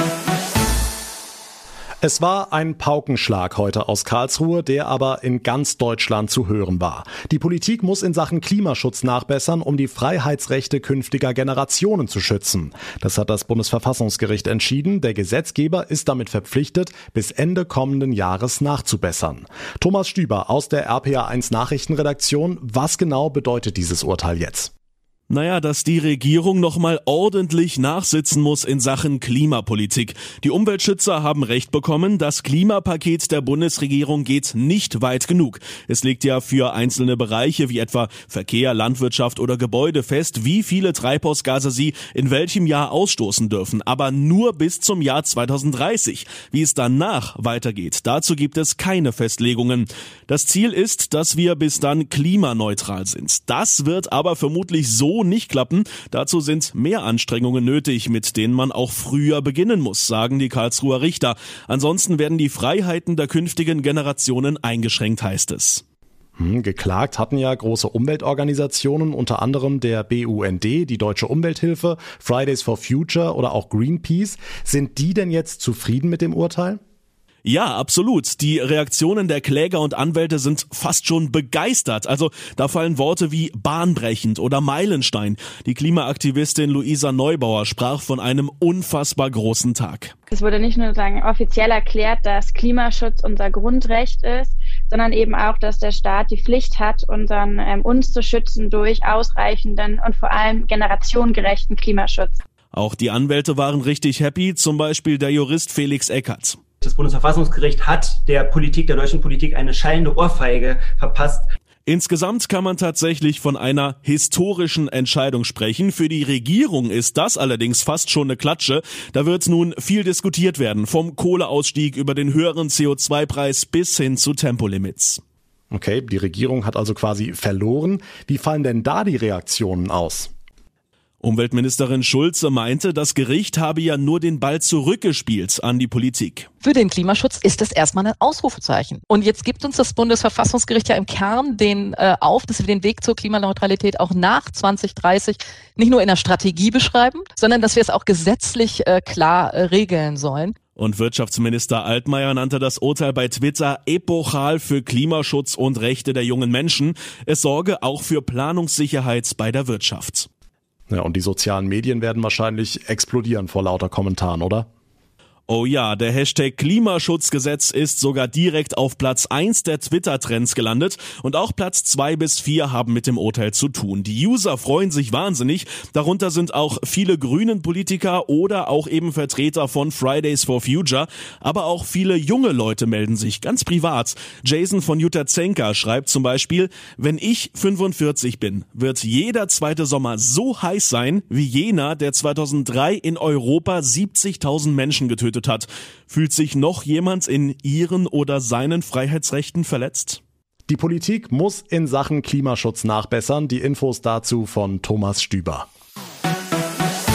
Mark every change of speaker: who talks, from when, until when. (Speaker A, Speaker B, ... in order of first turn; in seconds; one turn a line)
Speaker A: 2.0-24.7
Speaker B: 25.3-65.8
Speaker A: 66.4-76.8
Speaker B: 77.4-90.1
Speaker C: 90.3-102.3
Speaker B: 102.7-106.6
Speaker D: 106.8-111.5
Speaker B: 111.8-125.2
Speaker A: 125.7-130.3
Speaker B: 131.2-136.5
Speaker E: 136.6-150.5
Speaker B: 150.8-160.3
Speaker A: 160.9-164.7
Speaker B: 165.5-200.2
Speaker A: 200.7-205.7